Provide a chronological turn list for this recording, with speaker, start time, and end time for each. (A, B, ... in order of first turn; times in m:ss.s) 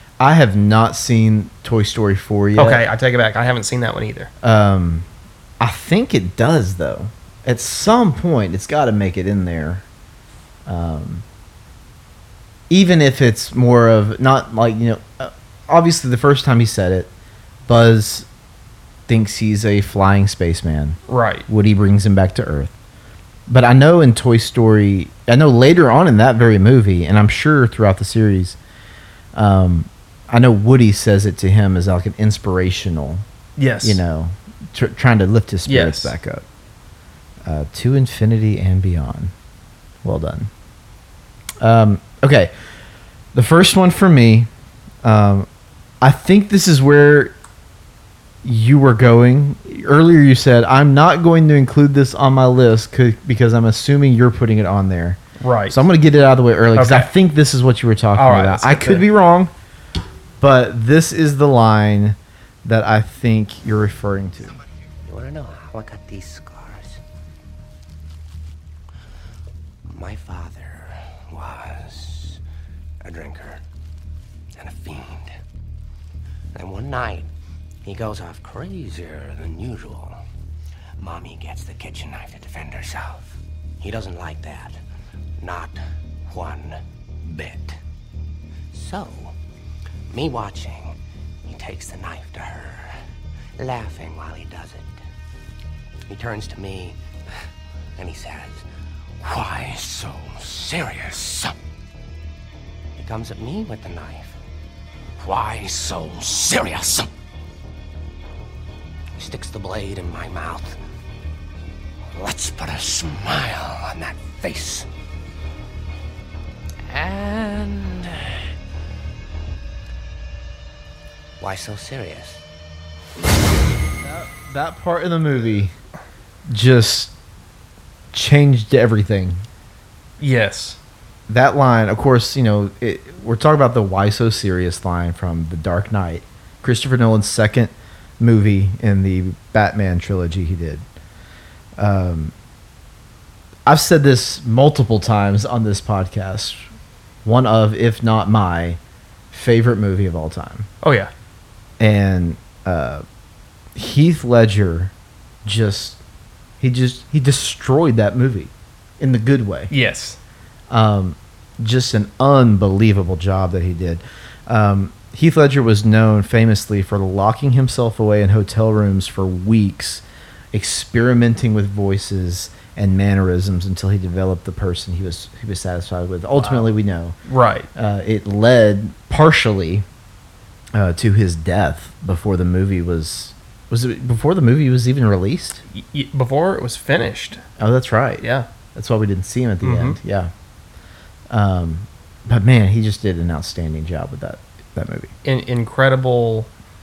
0:00.2-0:02.8 A
0:02.6-0:04.3 B
0:04.4-0:05.1 A
0:05.6-0:09.8 A
0:10.6-0:11.2 A
0:12.7-0:17.1 A
0:17.6-0:18.3 A
0:19.1-0:22.7 A
0:21.1-0:21.4 B
0:23.5-0:28.6 A
0:29.3-0:33.2 A
0:33.6-0:34.0 B
0:33.8-0:36.4 A
0:35.7-0:36.2 B
0:37.4-0:39.3 A
0:40.0-0:40.5 A
0:41.6-0:42.5 A
0:43.3-0:44.5 A
0:45.0-0:45.5 A
0:46.0-0:47.3 A
0:48.4-0:59.5 A
0:55.4-0:55.8 B
0:56.7-0:57.1 B
0:58.2-0:59.0 B
1:00.4-1:04.6 A
1:05.1-1:07.0 C
1:09.9-1:12.4 C
1:13.0-1:13.6 C
1:14.6-1:15.4 C
1:16.5-1:17.3 C
1:17.8-1:20.2 C
1:21.0-1:24.8 C
1:25.4-1:27.8 C
1:28.7-1:29.3 C
1:30.1-1:33.0 C
1:33.6-1:35.0 C
1:36.1-1:37.0 C
1:38.0-1:38.6 C
1:39.2-1:41.6 C
1:43.0-1:44.4 C
1:45.2-1:47.1 C
1:49.2-1:50.8 C
1:52.1-1:54.9 C
1:56.9-1:58.4 C
2:01.4-2:02.4 C
2:04.0-2:05.7 A
2:06.5-2:07.1 A
2:08.1-2:09.4 A
2:10.2-2:10.8 B
2:11.3-2:20.8 A
2:21.8-2:22.3 A
2:23.6-2:26.6 A
2:27.2-2:28.8 A
2:29.3-2:30.7 A
2:30.8-2:31.1 B
2:31.8-2:33.0 A
2:33.7-2:34.9 A
2:35.4-2:36.0 A
2:36.6-2:39.7 A
2:39.7-2:40.2 B
2:40.7-2:57.2 A
2:56.4-2:56.7 B
2:57.2-2:57.7 B
2:57.7-2:59.8 A
3:00.7-3:05.6 A
3:05.7-3:07.4 B
3:07.6-3:10.3 A
3:08.2-3:08.5 B
3:09.6-3:10.0 B
3:11.3-3:15.1 A
3:15.2-3:16.5 B